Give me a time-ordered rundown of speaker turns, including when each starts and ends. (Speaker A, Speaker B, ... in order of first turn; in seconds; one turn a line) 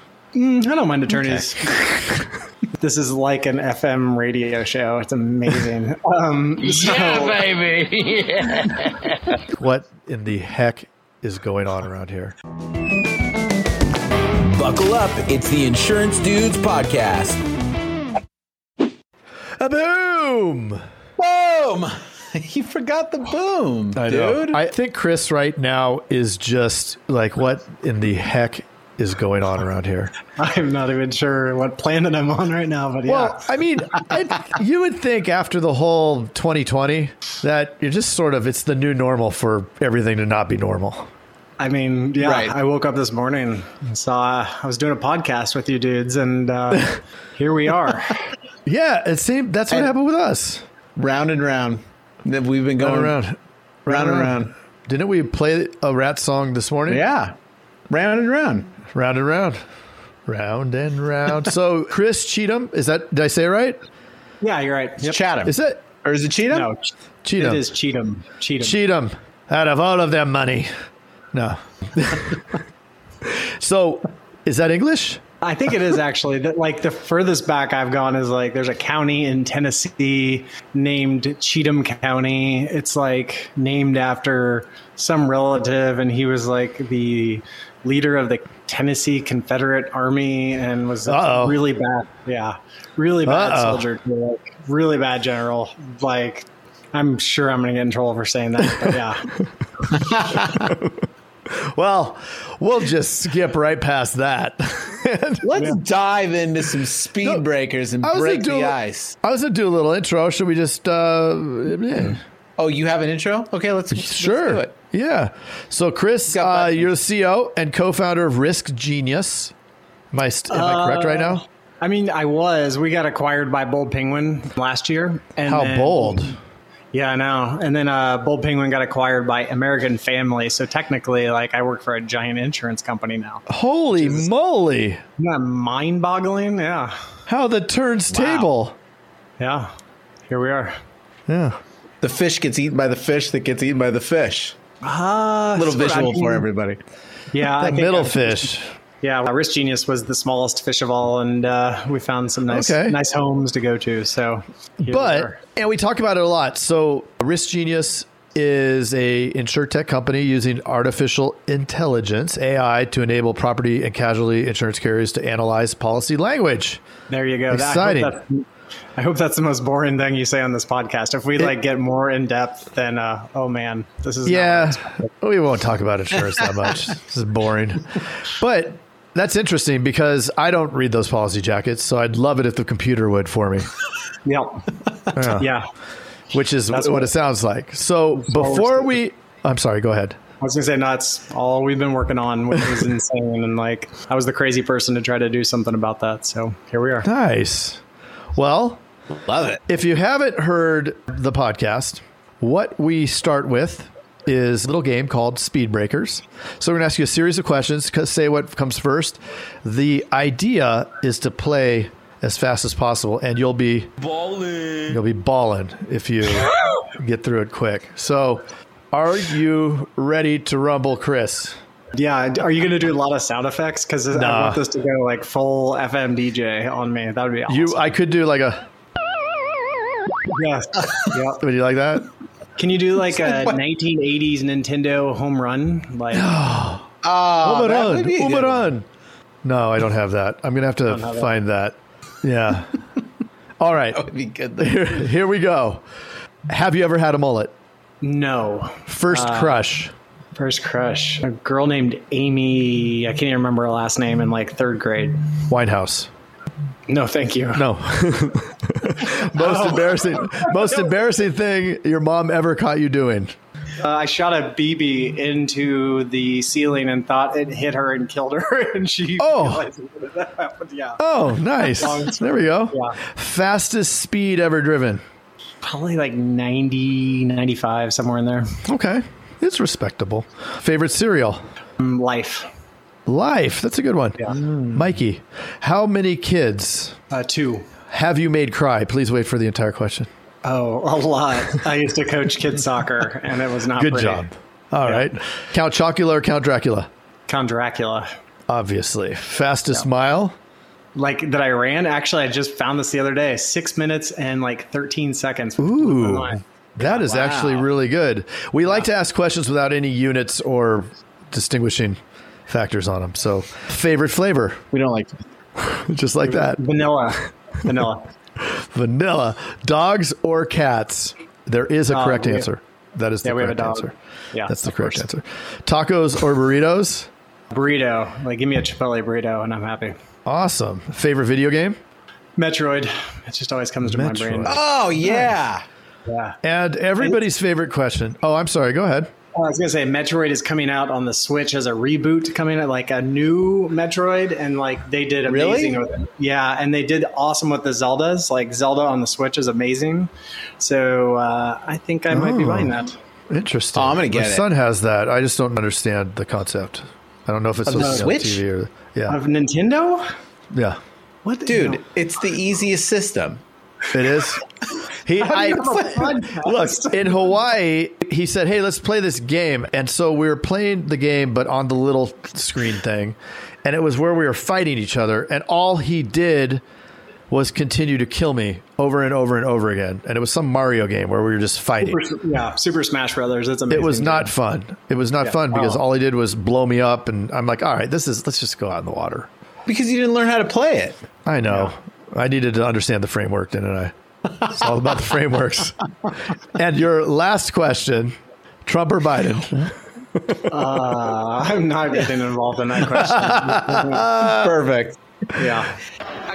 Speaker A: 0.3-1.7
Speaker A: 2.8-7.5
Speaker B: 6.6-8.9
Speaker C: 9.6-12.3
Speaker D: 14.4-17.4
Speaker C: 19.6-20.8
Speaker D: 21.2-24.6
Speaker C: 23.9-30.1
Speaker A: 30.4-33.4
Speaker C: 33.1-41.1
Speaker A: 41.6-48.2
Speaker D: 42.2-42.5
Speaker C: 48.7-50.6
Speaker D: 51.0-53.2
Speaker C: 52.8-54.4
Speaker D: 53.9-54.5
Speaker C: 54.9-57.0
Speaker D: 56.9-57.4
Speaker D: 57.9-58.8
Speaker C: 58.9-59.6
Speaker C: 60.3-63.8
Speaker A: 64.4-65.2
Speaker D: 65.0-66.7
Speaker C: 65.5-65.8
Speaker A: 66.5-66.9
Speaker C: 67.2-67.6
Speaker A: 67.4-68.8
Speaker C: 68.6-70.7
Speaker C: 71.3-72.5
Speaker C: 73.2-75.2
Speaker A: 75.4-99.3
Speaker C: 91.1-91.6
Speaker C: 93.2-93.8
Speaker D: 100.0-100.6
Speaker C: 100.7-100.9
Speaker C: 101.6-105.5
Speaker D: 105.4-109.2
Speaker C: 108.0-112.2
Speaker D: 112.6-114.7
Speaker C: 113.9-119.5
Speaker D: 116.3-116.9
Speaker C: 120.1-121.4
Speaker A: 120.5-126.3
Speaker C: 125.5-126.4
Speaker A: 126.9-133.4
Speaker C: 133.5-135.0
Speaker A: 134.0-134.3
Speaker A: 135.2-136.9
Speaker C: 137.3-138.8
Speaker D: 138.1-138.5
Speaker A: 139.4-139.7
Speaker A: 140.3-140.7
Speaker C: 141.3-141.6
Speaker D: 142.0-144.6
Speaker A: 144.8-146.5
Speaker D: 145.6-146.8
Speaker A: 147.3-148.5
Speaker C: 147.5-148.7
Speaker A: 149.0-155.4
Speaker C: 152.5-153.0
Speaker C: 154.8-166.8
Speaker A: 167.1-168.4
Speaker C: 167.5-168.2
Speaker A: 169.0-175.1
Speaker C: 174.3-183.7
Speaker A: 184.2-184.7
Speaker C: 185.2-185.5
Speaker A: 185.3-185.7
Speaker C: 186.3-190.2
Speaker A: 186.7-187.1
Speaker A: 188.2-189.0
Speaker A: 190.4-197.1
Speaker C: 197.0-197.8
Speaker C: 198.3-198.8
Speaker D: 199.3-199.6
Speaker C: 199.7-213.9
Speaker C: 214.8-221.6
Speaker A: 221.9-227.8
Speaker C: 224.1-224.6
Speaker C: 227.5-228.7
Speaker A: 230.3-231.4
Speaker C: 231.4-232.1
Speaker A: 232.6-236.3
Speaker D: 233.1-233.6
Speaker C: 236.1-238.9
Speaker D: 237.0-238.7
Speaker C: 239.4-242.8
Speaker A: 240.9-241.3
Speaker C: 243.6-244.0
Speaker D: 243.9-244.9
Speaker C: 244.6-245.8
Speaker C: 246.5-247.5
Speaker A: 248.0-249.6
Speaker C: 248.9-249.9
Speaker A: 250.3-255.3
Speaker C: 255.5-256.1
Speaker A: 256.9-257.6
Speaker C: 257.6-263.3
Speaker A: 259.3-260.5
Speaker A: 263.8-271.0
Speaker C: 269.2-269.6
Speaker C: 271.0-275.0
Speaker A: 271.7-273.0
Speaker A: 275.6-278.5
Speaker C: 278.6-281.4
Speaker A: 281.8-282.5
Speaker C: 283.1-287.0
Speaker A: 287.1-287.7
Speaker C: 287.9-290.1
Speaker A: 290.4-294.3
Speaker C: 293.8-296.9
Speaker A: 297.3-298.1
Speaker C: 298.5-300.4
Speaker A: 300.9-307.2
Speaker C: 305.6-314.6
Speaker D: 307.1-307.7
Speaker D: 314.7-315.1
Speaker C: 315.6-316.6
Speaker A: 316.2-318.1
Speaker C: 318.5-323.9
Speaker A: 321.9-322.5
Speaker A: 323.2-325.0
Speaker C: 324.5-327.1
Speaker A: 327.5-330.0
Speaker C: 330.3-331.8
Speaker A: 332.4-334.6
Speaker C: 333.8-334.6
Speaker D: 334.5-335.6
Speaker A: 336.1-336.4
Speaker C: 336.4-339.1
Speaker A: 339.4-353.0
Speaker D: 345.3-345.8
Speaker C: 352.1-352.8
Speaker C: 353.3-359.2
Speaker D: 353.8-354.5
Speaker D: 357.7-358.4
Speaker A: 357.8-358.1
Speaker A: 359.1-360.1
Speaker C: 360.5-360.8
Speaker A: 361.2-361.8
Speaker D: 361.5-363.4
Speaker C: 363.9-364.4
Speaker C: 365.0-376.6
Speaker A: 365.2-367.4
Speaker C: 377.3-382.0
Speaker A: 381.8-384.3
Speaker C: 383.7-389.3
Speaker A: 385.2-385.8
Speaker D: 389.7-391.0
Speaker C: 391.3-395.8
Speaker C: 396.4-398.1
Speaker C: 398.7-400.8
Speaker A: 400.5-404.1
Speaker C: 403.1-404.5
Speaker D: 404.2-405.0
Speaker A: 405.4-405.8